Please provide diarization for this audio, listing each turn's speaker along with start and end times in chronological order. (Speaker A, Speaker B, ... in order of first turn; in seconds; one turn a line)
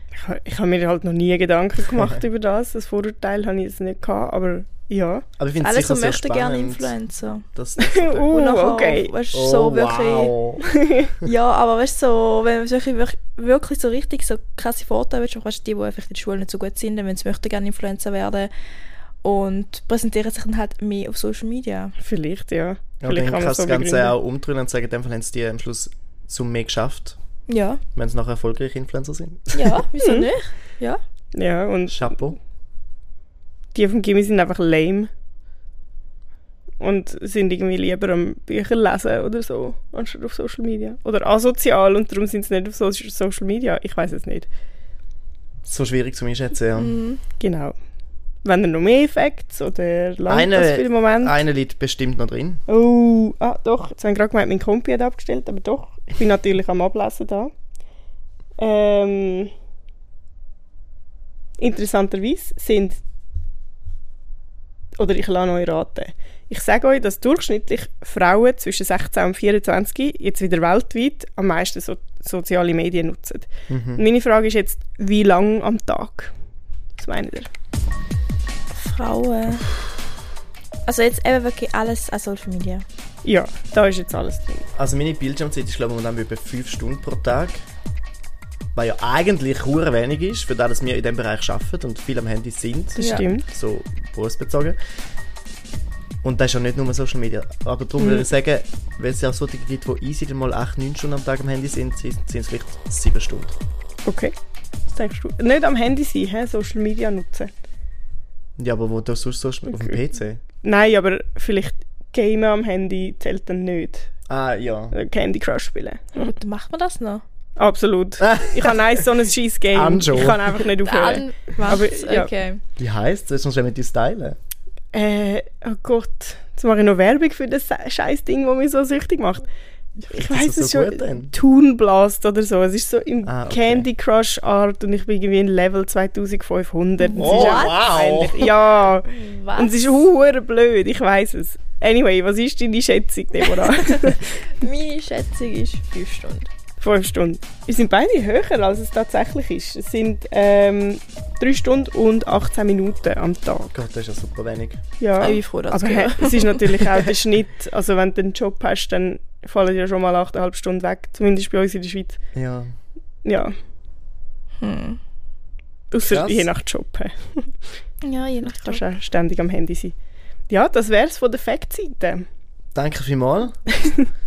Speaker A: 0.1-5.2
Speaker B: 1.9-2.2
Speaker B: 5.4-6.9
Speaker C: 5.6-7.4
Speaker B: 7.5-8.3
Speaker A: 7.8-9.1
Speaker C: 8.2-10.3
Speaker B: 9.3-10.6
Speaker A: 10.7-11.1
Speaker C: 11.2-18.5
Speaker C: 19.2-21.9
Speaker A: 22.0-24.1
Speaker B: 23.0-27.1
Speaker C: 27.5-27.8
Speaker B: 27.9-29.8
Speaker C: 29.5-31.0
Speaker A: 30.0-30.3
Speaker A: 31.3-32.3
Speaker B: 31.9-32.4
Speaker A: 33.7-35.1
Speaker A: 36.8-44.5
Speaker B: 45.6-47.0
Speaker C: 46.8-47.2
Speaker A: 47.4-47.8
Speaker A: 48.4-51.4
Speaker B: 50.3-52.6
Speaker A: 52.7-57.5
Speaker A: 58.6-59.5
Speaker A: 61.6-63.0
Speaker A: 65.0-76.3
Speaker B: 73.7-74.0
Speaker A: 77.0-77.5
Speaker C: 78.7-79.7
Speaker C: 80.8-82.8
Speaker A: 83.2-84.7
Speaker B: 84.8-87.6
Speaker B: 88.7-94.8
Speaker A: 93.0-93.4
Speaker C: 93.0-93.2
Speaker B: 96.2-103.5
Speaker A: 98.0-98.3
Speaker A: 104.0-104.3
Speaker A: 104.9-107.5
Speaker B: 108.6-110.4
Speaker A: 109.7-110.0
Speaker A: 110.6-114.1
Speaker B: 114.3-114.9
Speaker A: 114.9-116.2
Speaker C: 116.2-117.2
Speaker A: 117.6-122.3
Speaker B: 118.2-118.8
Speaker B: 119.7-120.6
Speaker C: 120.8-122.6
Speaker B: 122.8-124.4
Speaker A: 124.9-129.4
Speaker B: 130.0-131.3
Speaker A: 130.1-144.4
Speaker B: 133.2-133.9
Speaker C: 137.0-137.8
Speaker B: 137.2-138.5
Speaker C: 139.1-139.8
Speaker C: 143.6-146.5
Speaker A: 146.8-153.7
Speaker B: 153.7-154.8
Speaker A: 155.0-162.2
Speaker C: 155.2-156.8
Speaker B: 162.3-162.7
Speaker A: 163.2-163.5
Speaker C: 164.6-165.0
Speaker A: 165.9-167.6
Speaker B: 166.0-166.5
Speaker C: 168.0-168.8
Speaker A: 168.4-169.9
Speaker A: 170.5-172.2
Speaker B: 172.7-173.6